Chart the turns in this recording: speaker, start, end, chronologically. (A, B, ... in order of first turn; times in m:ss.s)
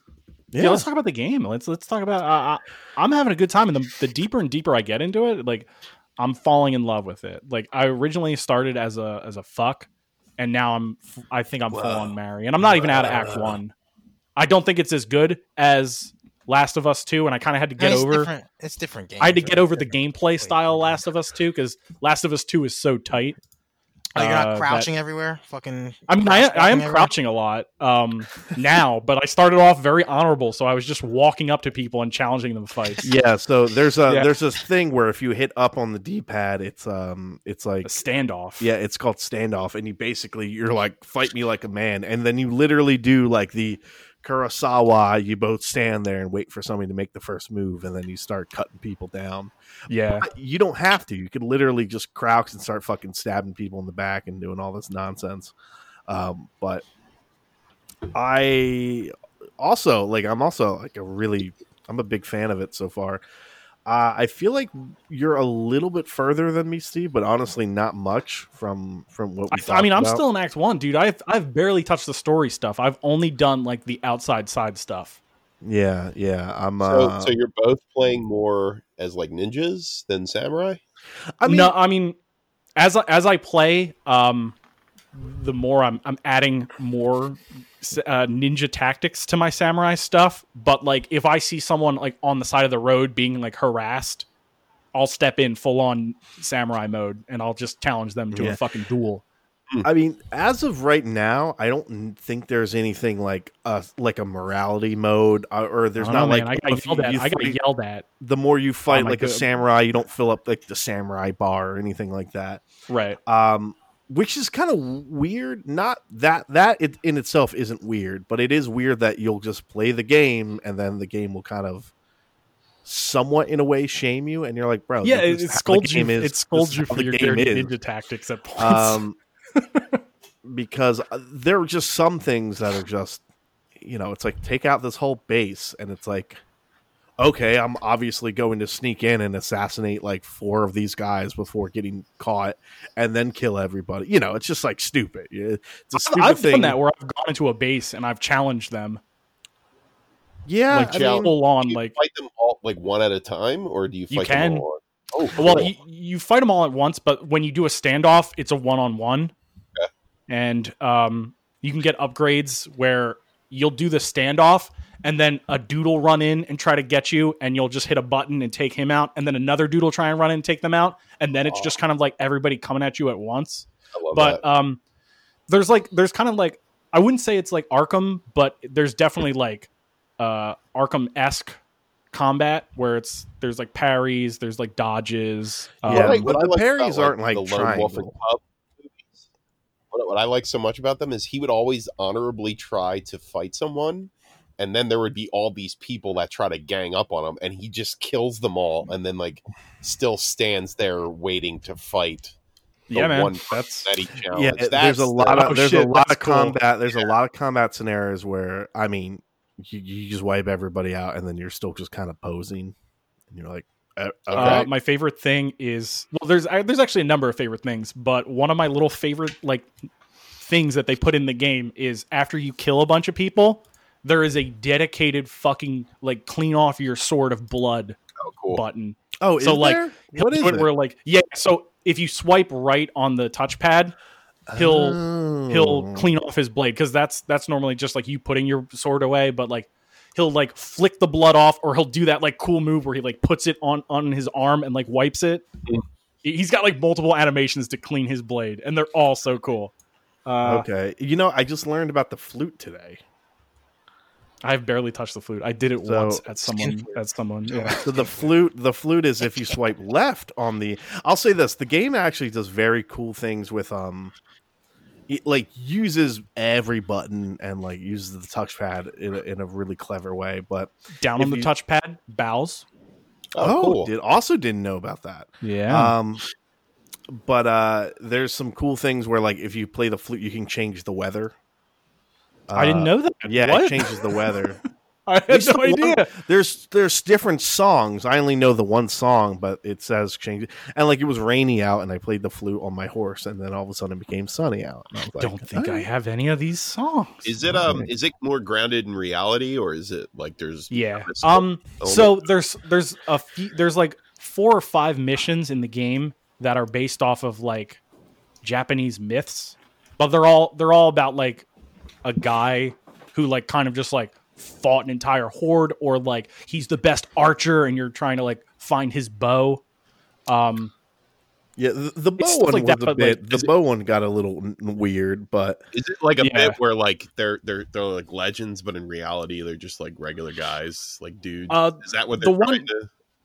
0:00.5-0:00.9 A
0:00.6-0:13.7 B
0:14.4-0:18.3 B
0:17.8-0:20.8 C
0:19.2-0:23.4 B
0:24.2-0:24.9 B
0:24.2-0:27.1 C
0:26.1-0:33.1 B
0:33.0-0:38.0 A
0:34.1-0:34.3 B
0:37.8-0:38.7 B
0:38.6-0:49.5 A
0:49.9-0:50.3 B
0:50.2-0:55.5 A
0:56.1-0:56.8 A
0:58.1-1:03.2 A
1:03.9-1:10.2 A
1:09.5-1:15.2 B
1:15.6-1:17.3 A
1:16.8-1:20.8 D
1:21.4-1:21.8 A
1:21.4-1:22.2 B
1:22.8-1:24.6 B
1:25.1-1:34.3 B
1:34.9-1:39.2 B
1:38.3-1:38.6 A
1:39.8-1:47.6 A
1:46.0-1:48.1 B
1:48.2-1:52.6 A
1:48.9-1:49.5 B
1:52.9-1:53.2 B
1:53.3-2:01.9 A
2:02.8-2:07.7 A
2:05.0-2:09.0 B
2:08.6-2:09.2 A
2:09.6-2:10.0 B
2:10.4-2:13.2 A
2:13.8-2:16.4 A
2:17.2-2:26.8 A
2:26.0-2:29.0 B
2:30.5-2:31.3 A
2:30.7-2:32.0 B
2:30.8-2:35.7 D
2:34.1-2:34.7 B
2:35.3-2:39.3 B
2:40.3-2:54.8 B
2:51.5-2:51.7 D
2:53.9-2:54.4 D
2:55.5-3:01.6 B
3:02.1-3:06.3 B
3:05.8-3:08.2 A
3:05.9-3:09.2 D
3:09.9-3:22.4 D
3:22.9-3:23.9 B
3:22.9-3:25.5 D
3:24.3-3:32.7 A
3:25.3-3:26.6 B
3:33.3-3:34.7 A
3:34.3-3:34.7 D
3:34.3-3:39.7 B
3:40.4-3:48.0 B
3:48.2-3:48.6 D
3:48.5-3:54.0 B
3:49.2-3:50.7 A
3:54.5-3:56.1 A
3:54.5-4:05.5 B
4:06.2-4:09.7 B
4:10.3-4:10.7 B
4:10.4-4:13.0 A
4:14.4-4:17.8 B
4:15.8-4:16.2 A
4:16.5-4:17.0 C
4:17.5-4:18.4 C
4:17.8-4:24.1 A
4:25.1-4:31.5 A
4:31.0-4:32.6 B
4:33.3-4:33.9 D
4:33.4-4:36.2 A
4:35.4-4:36.0 B
4:37.1-4:41.3 A
4:42.5-4:44.6 A
4:42.5-4:44.3 B
4:45.1-4:46.1 B
4:45.3-4:55.9 A
4:55.2-4:57.8 B
4:57.2-5:02.2 D
5:00.7-5:07.8 B
5:08.4-5:11.5 B
5:12.0-5:19.6 B
5:20.3-5:20.7 B
5:21.6-5:25.6 A
5:22.2-5:23.5 B
5:25.7-5:32.9 D
5:26.2-5:26.6 B
5:31.5-5:32.7 B